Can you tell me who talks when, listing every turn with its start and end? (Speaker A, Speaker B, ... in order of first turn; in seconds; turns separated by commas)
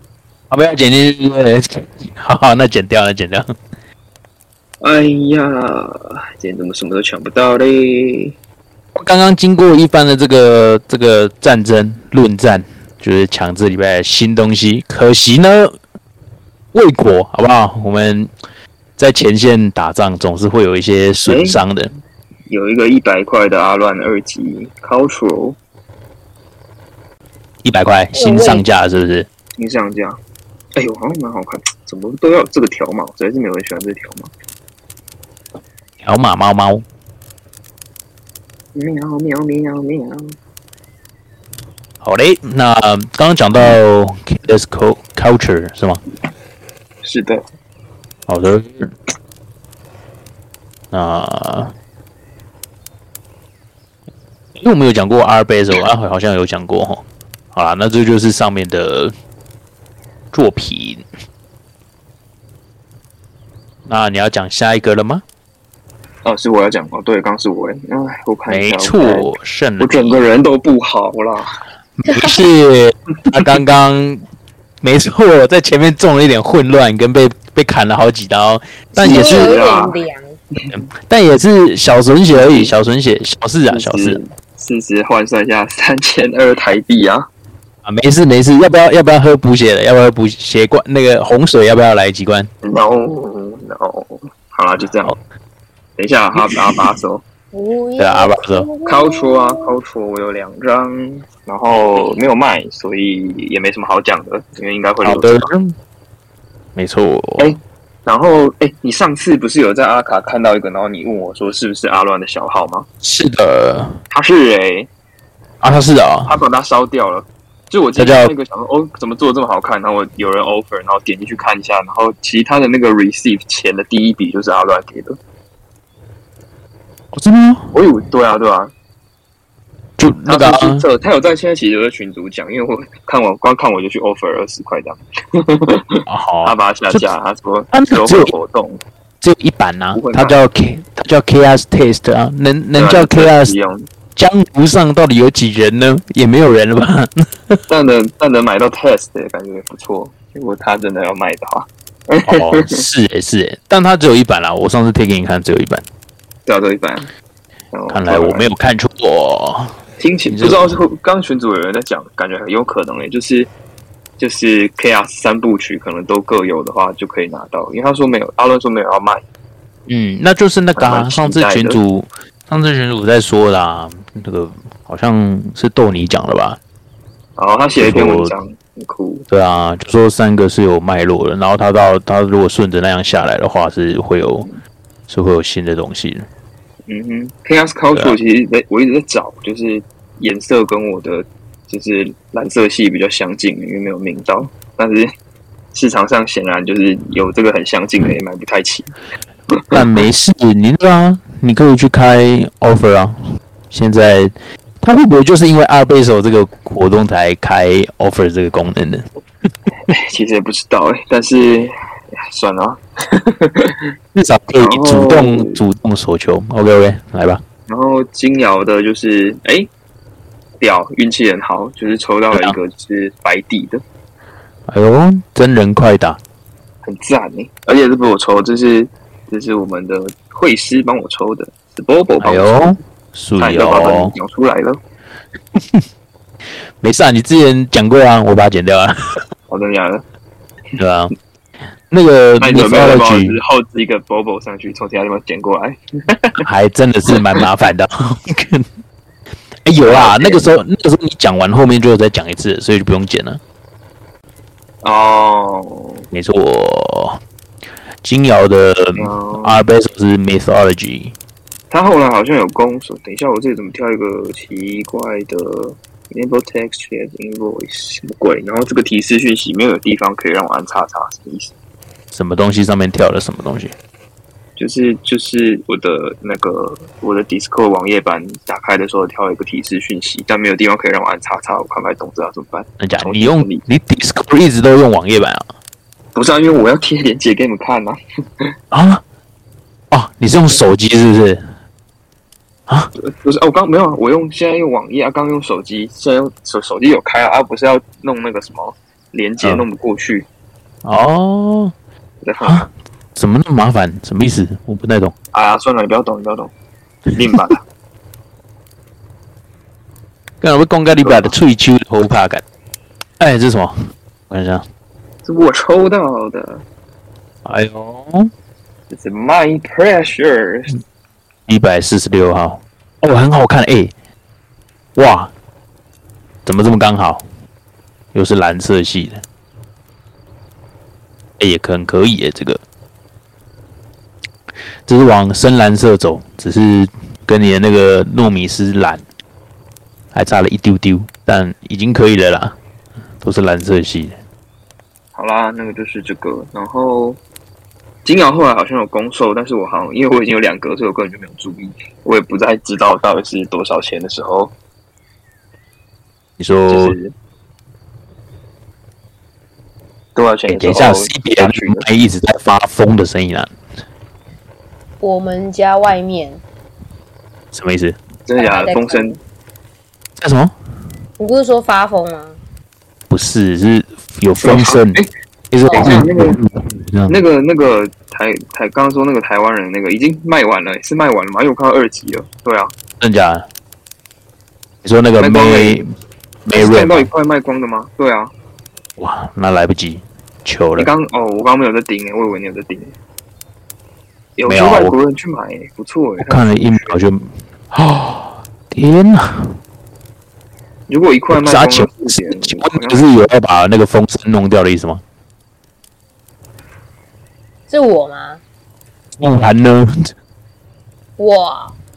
Speaker A: 0.5-3.5, Speaker B: 4.8-8.3, Speaker A: 8.9-15.7, Speaker A: 16.7-18.3, Speaker A: 19.0-21.9, Speaker B: 21.2-21.6, Speaker B: 22.5-25.6, Speaker A: 27.6-29.3, Speaker C: 28.1-28.6, Speaker B: 29.6-30.2, Speaker B: 30.8-34.3, Speaker A: 36.0-36.8, Speaker B: 38.7-40.3, Speaker A: 42.0-46.0, Speaker B: 47.0-47.4, Speaker A: 48.3-48.9, Speaker A: 50.9-51.7, Speaker A: 54.6-59.1, Speaker A: 60.3-61.0, Speaker A: 63.9-65.2, Speaker B: 66.2-71.5, Speaker A: 68.5-70.2, Speaker A: 72.0-74.2, Speaker A: 74.8-79.6, Speaker C: 79.0-80.3, Speaker B: 79.0-80.0, Speaker A: 80.7-84.2, Speaker B: 82.3-82.7, Speaker B: 83.7-87.3, Speaker A: 87.8-92.5, Speaker B: 92.6-95.1, Speaker B: 96.0-97.2, Speaker A: 96.4-96.9, Speaker C: 97.5-99.6, Speaker A: 98.0-98.7, Speaker B: 98.8-105.5, Speaker A: 105.0-105.7, Speaker A: 106.8-107.5, Speaker B: 107.4-112.8, Speaker A: 113.0-114.0, Speaker B: 114.1-114.9, Speaker A: 115.6-116.3, Speaker B: 116.3-125.2, Speaker A: 118.0-118.3, Speaker A: 127.1-127.8, Speaker B: 127.7-128.7, Speaker A: 130.0-130.8, Speaker B: 130.2-138.8, Speaker A: 136.1-137.1, Speaker A: 137.7-138.3, Speaker A: 139.2-143.5, Speaker B: 139.9-140.4, Speaker B: 142.7-143.9, Speaker A: 144.2-147.6, Speaker B: 147.7-152.8, Speaker A: 152.2-155.8, Speaker B: 156.4-157.1, Speaker B: 157.7-158.5, Speaker A: 157.9-159.8, Speaker B: 160.0-163.5, Speaker A: 160.3-160.8, Speaker B: 164.2-169.2, Speaker A: 169.9-176.6, Speaker B: 170.8-171.8, Speaker B: 177.4-179.3, Speaker A: 177.8-178.3, Speaker A: 179.3-184.5, Speaker A: 185.1-186.2, Speaker B: 186.9-195.1, Speaker B: 195.7-198.9, Speaker B: 199.5-199.8, Speaker A: 199.7-203.1, Speaker A: 203.7-209.1, Speaker B: 209.9-211.7, Speaker B: 212.3-213.9, Speaker A: 214.1-217.4, Speaker B: 214.6-215.6, Speaker B: 217.7-219.7, Speaker B: 220.6-223.8, Speaker A: 224.7-226.2, Speaker B: 226.8-232.8, Speaker A: 232.2-234.2, Speaker B: 233.4-234.8, Speaker A: 235.5-235.8, Speaker A: 236.8-239.2, Speaker B: 239.5-240.0, Speaker A: 240.8-241.1, Speaker A: 241.9-243.4, Speaker B: 242.4-246.4, Speaker A: 246.4-248.7, Speaker A: 249.6-253.4, Speaker B: 249.8-250.5, Speaker B: 254.8-256.0, Speaker A: 256.1-257.2, Speaker A: 258.0-261.1, Speaker B: 259.0-259.6, Speaker B: 261.7-271.5, Speaker A: 272.1-273.7, Speaker B: 274.6-283.6, Speaker A: 282.8-285.5, Speaker B: 286.1-288.0, Speaker A: 288.7-289.0, Speaker A: 289.9-291.5, Speaker B: 293.0-300.3, Speaker A: 299.4-299.6, Speaker A: 300.8-301.7, Speaker B: 302.2-302.6, Speaker A: 302.4-305.1, Speaker B: 305.3-306.5, Speaker B: 307.1-307.6, Speaker A: 310.4-312.4, Speaker B: 310.9-311.3, Speaker A: 313.2-313.7, Speaker A: 314.3-314.6, Speaker B: 315.2-316.6, Speaker A: 317.4-318.3, Speaker B: 318.9-320.7, Speaker A: 321.5-323.9, Speaker A: 324.9-325.3, Speaker A: 326.4-327.2, Speaker A: 328.1-329.2, Speaker A: 331.4-332.6, Speaker A: 334.9-339.0, Speaker A: 340.1-342.6, Speaker A: 343.2-344.2, Speaker B: 345.1-347.2, Speaker B: 348.0-354.5, Speaker A: 356.4-356.9, Speaker B: 356.7-357.1, Speaker B: 360.1-361.9, Speaker A: 360.5-363.5, Speaker C: 365.0-366.4, Speaker A: 367.5-368.0, Speaker B: 368.3-369.2, Speaker C: 368.4-369.2, Speaker A: 370.2-370.5, Speaker C: 371.2-372.4, Speaker A: 373.1-377.2, Speaker B: 374.4-375.1, Speaker C: 375.7-376.0, Speaker B: 375.7-376.4, Speaker B: 377.1-382.7, Speaker A: 383.0-383.4, Speaker A: 384.8-385.9, Speaker B: 385.2-385.8, Speaker A: 386.4-387.1, Speaker B: 386.5-388.3, Speaker A: 389.0-390.9, Speaker B: 390.8-392.9, Speaker B: 394.4-397.0, Speaker A: 394.4-394.9, Speaker A: 396.2-399.5, Speaker B: 400.9-403.1, Speaker A: 401.3-405.0, Speaker C: 407.7-408.4, Speaker A: 409.2-410.1, Speaker C: 411.2-411.7